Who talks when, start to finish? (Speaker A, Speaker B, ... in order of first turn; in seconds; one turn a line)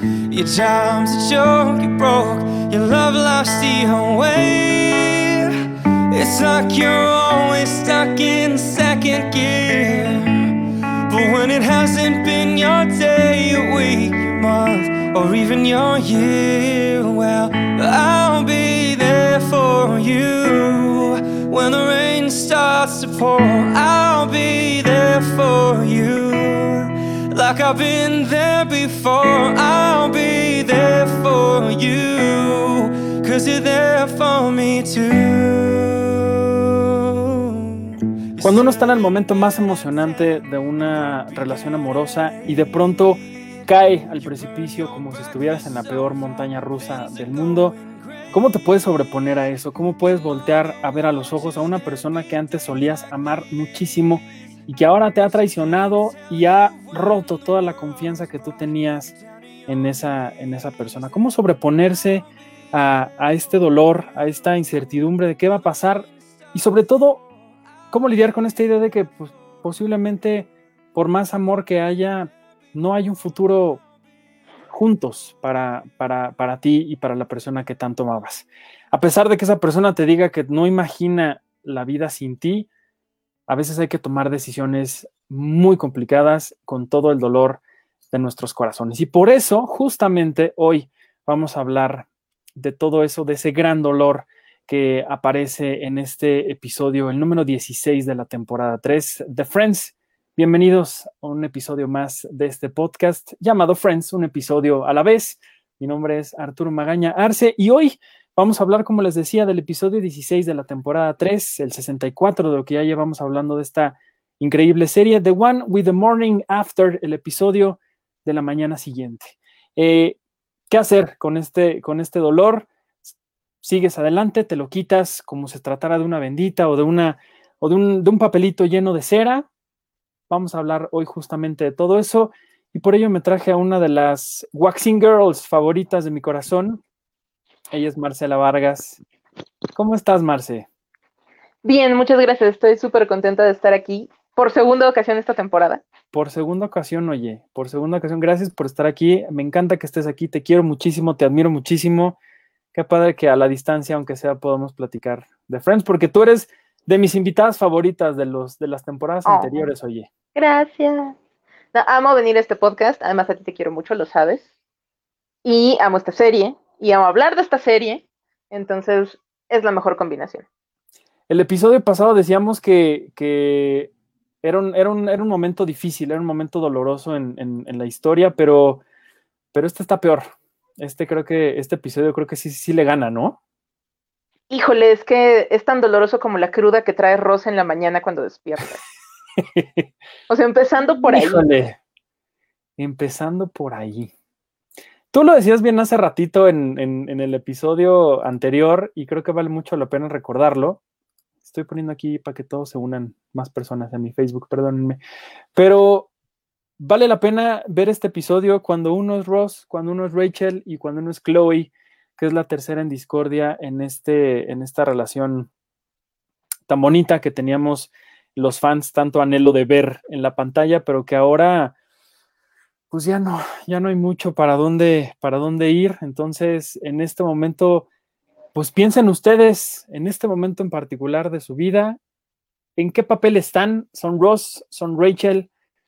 Speaker A: 0.3-5.5
Speaker A: 6.1-10.5
Speaker A: 11.1-38.7
Speaker B: 38.4-47.8
Speaker B: 48.3-59.1
Speaker B: 59.7-67.2
Speaker B: 67.9-73.8
Speaker B: 74.7-82.7
Speaker B: 83.5-87.6
Speaker B: 88.1-120.2
Speaker B: 120.7-129.5
Speaker B: 130.3-136.8
Speaker B: 137.7-139.0
Speaker B: 139.7-140.7
Speaker C: 141.6-145.8
Speaker B: 146.1-152.2
Speaker B: 152.7-160.1
Speaker C: 159.2-159.7
Speaker C: 160.3-161.2
Speaker C: 161.7-164.4
Speaker C: 165.4-170.4
Speaker B: 171.3-173.9
Speaker B: 174.4-178.8
Speaker B: 179.5-183.4
Speaker C: 184.5-188.8
Speaker B: 189.4-189.9
Speaker C: 190.3-191.4
Speaker B: 191.0-191.8
Speaker B: 192.8-194.1
Speaker B: 195.1-200.8
Speaker B: 201.4-205.0
Speaker B: 205.5-206.1
Speaker B: 206.8-215.5
Speaker B: 216.7-221.7
Speaker B: 222.9-227.9
Speaker B: 228.5-232.0
Speaker B: 232.8-235.5